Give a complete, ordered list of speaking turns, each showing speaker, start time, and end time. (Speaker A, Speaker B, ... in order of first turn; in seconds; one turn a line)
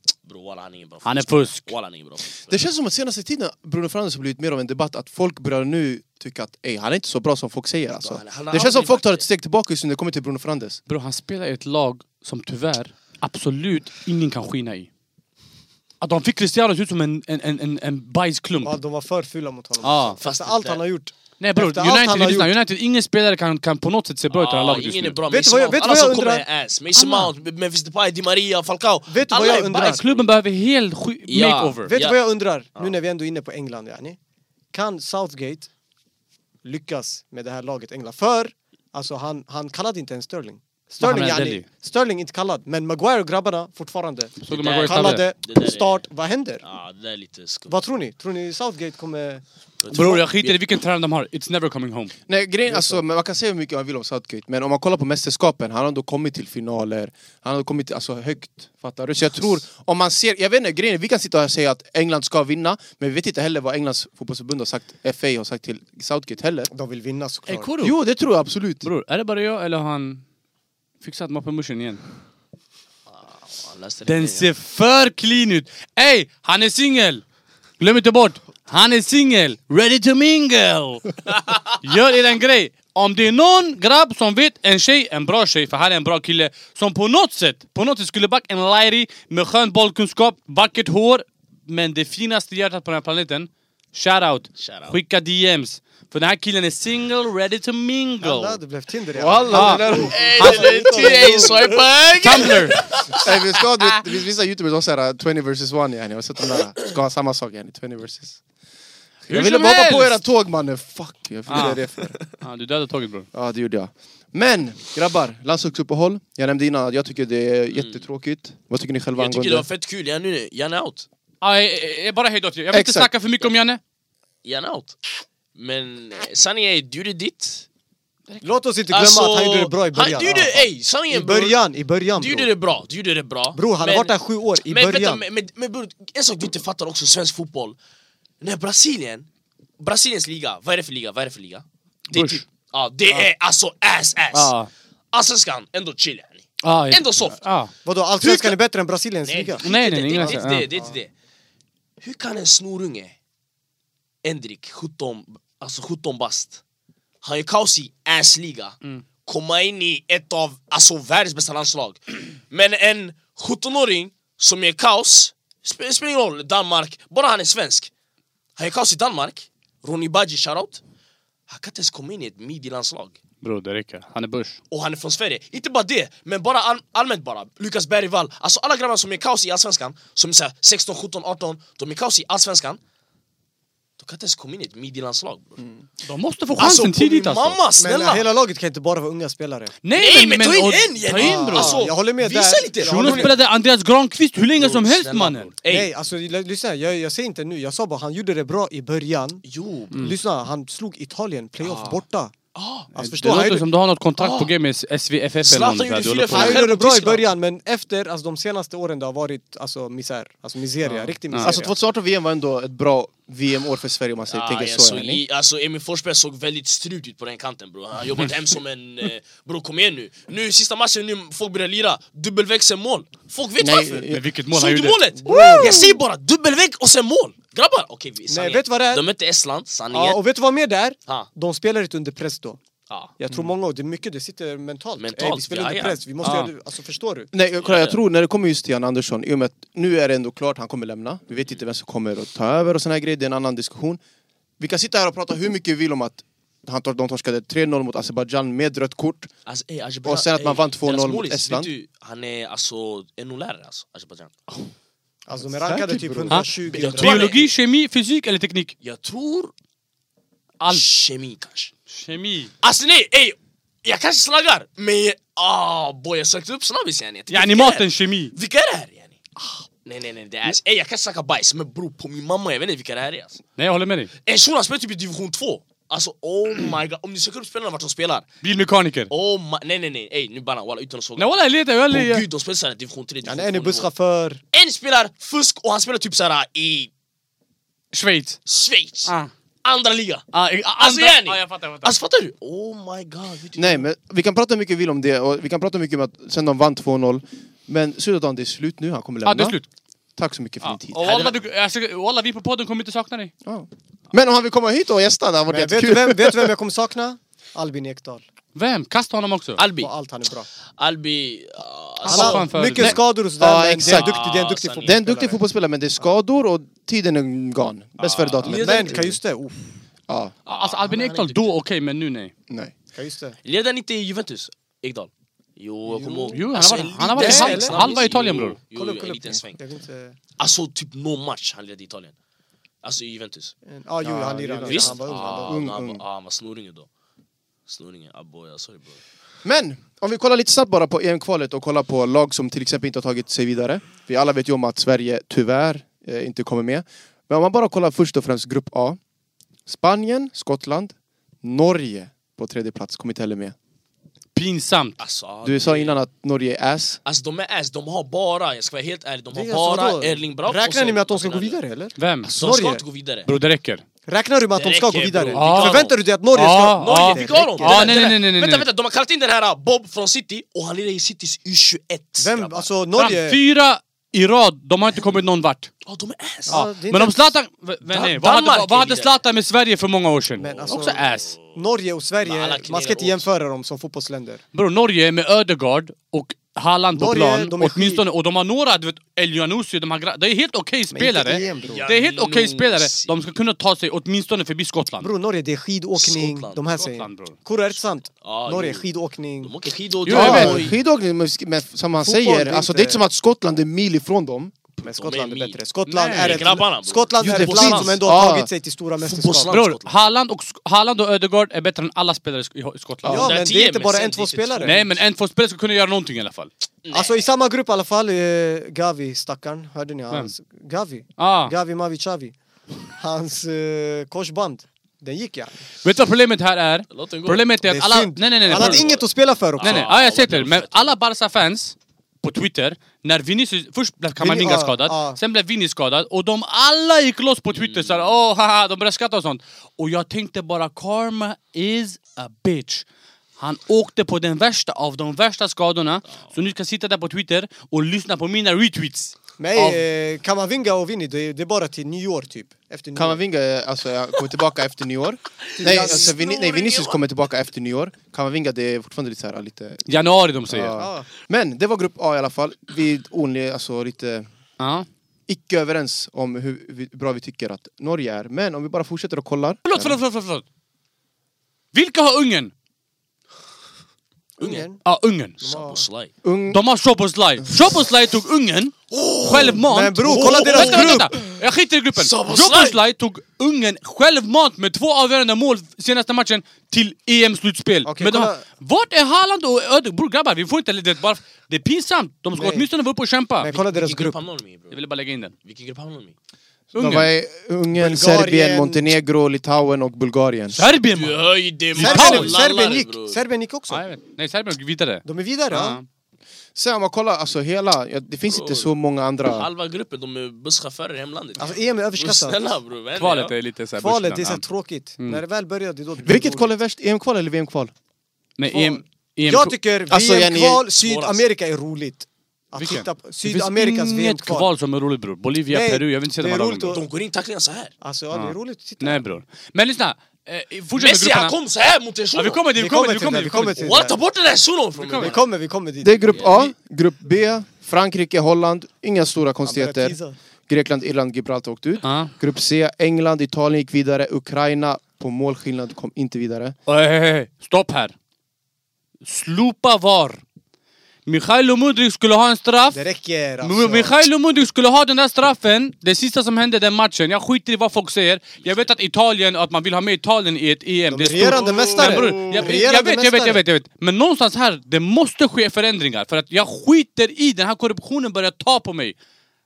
Speaker A: 0.2-2.6
Speaker B: 1.0-1.7
Speaker C: 2.5-10.8
Speaker A: 8.0-9.3
Speaker B: 10.9-14.9
Speaker B: 16.0-18.8
Speaker D: 18.6-22.5
Speaker B: 19.8-20.2
Speaker A: 20.2-20.8
Speaker B: 21.4-25.2
Speaker A: 24.3-30.3
Speaker D: 25.3-26.4
Speaker B: 26.9-27.3
Speaker D: 29.1-30.0
Speaker B: 29.8-31.9
Speaker A: 31.3-32.2
Speaker D: 31.9-34.2
Speaker D: 34.7-35.7
Speaker D: 36.6-46.6
Speaker B: 41.0-41.6
Speaker B: 44.4-45.2
Speaker A: 44.5-46.1
Speaker A: 46.6-47.8
Speaker D: 47.7-49.4
Speaker A: 49.8-50.6
Speaker B: 49.9-52.1
Speaker C: 52.3-66.7
Speaker D: 52.7-53.0
Speaker D: 66.7-67.7
Speaker B: 67.5-68.0
Speaker C: 67.8-68.9
Speaker B: 68.8-70.2
Speaker B: 71.0-72.0
Speaker A: 73.1-74.5
Speaker B: 74.1-77.2
Speaker B: 77.8-81.1
Speaker B: 81.8-98.6
Speaker A: 94.6-95.0
Speaker D: 98.2-101.8
Speaker C: 99.2-100.2
Speaker B: 99.5-101.2
Speaker A: 100.1-103.2
Speaker B: 102.2-102.8
Speaker C: 103.1-108.4
Speaker B: 109.3-110.2
Speaker C: 109.3-112.2
Speaker B: 111.5-111.8
Speaker B: 112.4-113.3
Speaker C: 113.3-119.7
Speaker A: 117.7-118.0
Speaker A: 119.2-121.1
Speaker B: 121.4-123.8
Speaker C: 122.7-123.1
Speaker A: 124.4-125.0
Speaker A: 125.5-127.7
Speaker D: 128.4-132.5
Speaker A: 128.9-131.6
Speaker A: 132.2-134.1
Speaker D: 133.5-135.2
Speaker A: 134.7-137.8
Speaker A: 138.4-139.3
Speaker A: 139.8-144.5
Speaker B: 142.1-142.4
Speaker B: 144.3-144.7
Speaker A: 145.1-147.4
Speaker B: 146.6-147.7
Speaker D: 147.8-150.9
Speaker A: 148.2-148.6
Speaker A: 149.3-151.1
Speaker B: 149.6-150.7
Speaker A: 152.0-153.2
Speaker A: 154.2-156.6
Speaker A: 157.2-167.9
Speaker A: 168.6-170.8
Speaker A: 171.5-173.2
Speaker B: 173.4-174.6
Speaker A: 174.7-182.8
Speaker A: 184.0-185.6
Speaker B: 186.1-187.6
Speaker A: 186.6-188.3
Speaker D: 187.8-189.8
Speaker B: 189.8-191.8
Speaker A: 190.0-193.3
Speaker D: 191.1-193.3
Speaker B: 192.8-195.5
Speaker A: 194.6-195.9
Speaker D: 195.7-199.4
Speaker A: 199.4-200.2
Speaker D: 200.0-202.3
Speaker A: 201.6-202.0
Speaker A: 202.6-202.9
Speaker D: 202.9-203.7
Speaker B: 203.0-206.6
Speaker A: 204.2-204.5
Speaker A: 205.4-207.3
Speaker D: 206.3-211.7
Speaker C: 210.9-215.2
Speaker B: 211.3-211.6
Speaker A: 214.3-230.2
Speaker C: 223.6-224.2
Speaker B: 224.1-225.0
Speaker D: 225.2-226.0
Speaker D: 228.3-229.0
Speaker D: 229.9-232.6
Speaker D: 233.2-237.3
Speaker A: 235.0-236.0
Speaker B: 236.2-236.5
Speaker C: 237.3-244.0
Speaker A: 237.6-238.0
Speaker C: 244.6-249.3
Speaker A: 249.5-254.4
Speaker C: 250.1-251.7
Speaker D: 255.3-257.4
Speaker C: 255.7-256.3
Speaker B: 255.7-258.8
Speaker A: 256.3-257.5
Speaker A: 258.8-259.5
Speaker A: 260.7-261.7
Speaker B: 261.9-262.5
Speaker A: 262.6-269.2
Speaker B: 267.3-268.3
Speaker A: 269.8-273.4
Speaker B: 273.6-274.1
Speaker A: 274.2-278.3
Speaker B: 278.4-279.1
Speaker A: 279.1-281.3
Speaker B: 281.2-282.3
Speaker A: 281.9-283.9
Speaker D: 283.2-284.4
Speaker A: 284.5-286.9
Speaker B: 287.9-288.4
Speaker A: 288.5-289.1
Speaker B: 289.1-289.3
Speaker A: 289.6-290.2
Speaker B: 290.3-292.0
Speaker A: 290.8-293.9
Speaker C: 293.6-299.6
Speaker B: 299.2-299.7
Speaker C: 300.2-301.0
Speaker B: 300.6-303.3
Speaker A: 301.0-301.4
Speaker C: 303.4-306.5
Speaker D: 305.5-308.2
Speaker B: 308.6-309.6
Speaker A: 309.6-309.9
Speaker D: 309.8-310.5
Speaker A: 310.8-312.6
Speaker D: 312.1-315.4
Speaker B: 312.1-313.0
Speaker C: 312.8-314.2
Speaker A: 313.8-315.0
Speaker C: 314.8-319.2
Speaker A: 318.0-319.0
Speaker D: 318.4-319.7
Speaker C: 320.1-320.3
Speaker A: 320.5-321.5
Speaker B: 320.5-322.3
Speaker D: 322.9-323.4
Speaker A: 323.4-329.6
Speaker D: 325.9-326.4
Speaker B: 326.3-328.6
Speaker D: 327.1-328.0
Speaker D: 328.7-330.2
Speaker A: 330.4-332.1
Speaker A: 332.8-333.5
Speaker D: 333.7-335.7
Speaker C: 334.0-336.0
Speaker A: 334.6-336.9
Speaker A: 337.7-339.0
Speaker C: 339.4-349.0
Speaker C: 349.7-353.6
Speaker B: 354.4-355.0
Speaker A: 355.0-356.0
Speaker C: 355.4-357.0
Speaker A: 357.1-361.6
Speaker D: 359.3-362.8
Speaker B: 362.0-362.3
Speaker A: 362.2-363.3
Speaker B: 363.3-363.8
Speaker D: 364.1-368.1
Speaker A: 364.6-366.0
Speaker B: 365.3-368.7
Speaker A: 366.8-372.7
Speaker D: 372.2-373.4
Speaker B: 373.0-375.7
Speaker A: 375.9-376.6
Speaker D: 376.5-377.3
Speaker B: 376.5-381.4
Speaker A: 377.9-379.2
Speaker D: 380.4-384.4
Speaker A: 380.4-381.6
Speaker A: 382.2-383.3
Speaker B: 384.5-395.1
Speaker D: 386.9-388.0
Speaker D: 390.9-391.9
Speaker A: 391.6-393.2
Speaker D: 395.0-399.6
Speaker A: 396.0-396.7
Speaker B: 396.8-397.4
Speaker A: 398.2-398.9
Speaker A: 399.4-400.8
Speaker B: 400.1-400.7
Speaker C: 400.1-404.6
Speaker D: 400.1-400.6
Speaker D: 402.0-403.0
Speaker D: 404.8-409.6
Speaker A: 404.9-405.6
Speaker B: 405.9-406.5
Speaker A: 406.1-408.0
Speaker C: 407.2-408.5
Speaker A: 409.0-409.9
Speaker B: 409.5-413.3
Speaker D: 413.1-414.8
Speaker A: 413.1-414.8
Speaker B: 414.6-416.5
Speaker A: 416.9-417.2
Speaker D: 416.9-422.3
Speaker B: 421.2-421.5
Speaker D: 423.0-425.6
Speaker B: 425.8-428.9
Speaker A: 426.9-427.4
Speaker D: 427.6-429.9
Speaker A: 428.5-430.9
Speaker B: 429.6-442.9
Speaker D: 434.2-435.2
Speaker A: 437.6-438.0
Speaker B: 443.4-449.8
Speaker D: 449.4-453.2
Speaker C: 453.0-459.9
Speaker A: 455.6-457.0
Speaker D: 455.6-456.2
Speaker B: 459.9-460.7
Speaker C: 460.5-464.3
Speaker D: 460.8-461.1
Speaker B: 464.6-464.9
Speaker C: 465.3-470.0
Speaker B: 469.6-470.4
Speaker B: 471.7-472.5
Speaker D: 474.4-474.8
Speaker A: 474.4-474.7
Speaker B: 474.8-475.4
Speaker D: 475.4-475.8
Speaker A: 475.4-476.1
Speaker C: 476.2-476.6
Speaker B: 476.5-493.5
Speaker A: 478.9-481.3
Speaker D: 479.4-481.1
Speaker A: 482.0-482.8
Speaker D: 487.9-488.5
Speaker D: 492.4-492.7
Speaker D: 493.4-494.2
Speaker A: 493.5-494.8
Speaker B: 494.7-495.3
Speaker A: 495.4-496.1
Speaker B: 496.7-497.1
Speaker C: 496.8-500.6
Speaker D: 497.7-498.9
Speaker B: 500.6-501.2
Speaker A: 500.9-503.2
Speaker B: 501.7-502.4
Speaker D: 501.8-503.8
Speaker B: 503.7-505.9
Speaker D: 505.1-505.8
Speaker C: 506.6-509.5
Speaker A: 508.3-508.7
Speaker A: 509.3-513.3
Speaker D: 511.4-512.4
Speaker B: 513.0-514.4
Speaker D: 513.8-516.5
Speaker C: 516.0-517.7
Speaker B: 518.4-519.5
Speaker D: 518.5-524.5
Speaker C: 519.9-520.6
Speaker A: 520.7-521.2
Speaker B: 522.6-526.8
Speaker D: 525.5-526.9
Speaker A: 526.7-527.7
Speaker D: 527.8-529.0
Speaker B: 528.1-531.4
Speaker A: 530.8-532.4
Speaker B: 532.1-533.6
Speaker D: 532.5-534.0
Speaker A: 533.6-535.2
Speaker B: 534.8-535.2
Speaker D: 535.0-536.3
Speaker C: 535.8-540.0
Speaker A: 536.1-536.5
Speaker D: 539.5-540.2
Speaker C: 540.5-546.6
Speaker B: 541.8-542.1
Speaker B: 546.7-547.9
Speaker B: 549.0-550.2
Speaker B: 551.1-552.8
Speaker D: 552.7-554.0
Speaker B: 553.4-569.0
Speaker D: 560.9-563.4
Speaker A: 561.3-562.5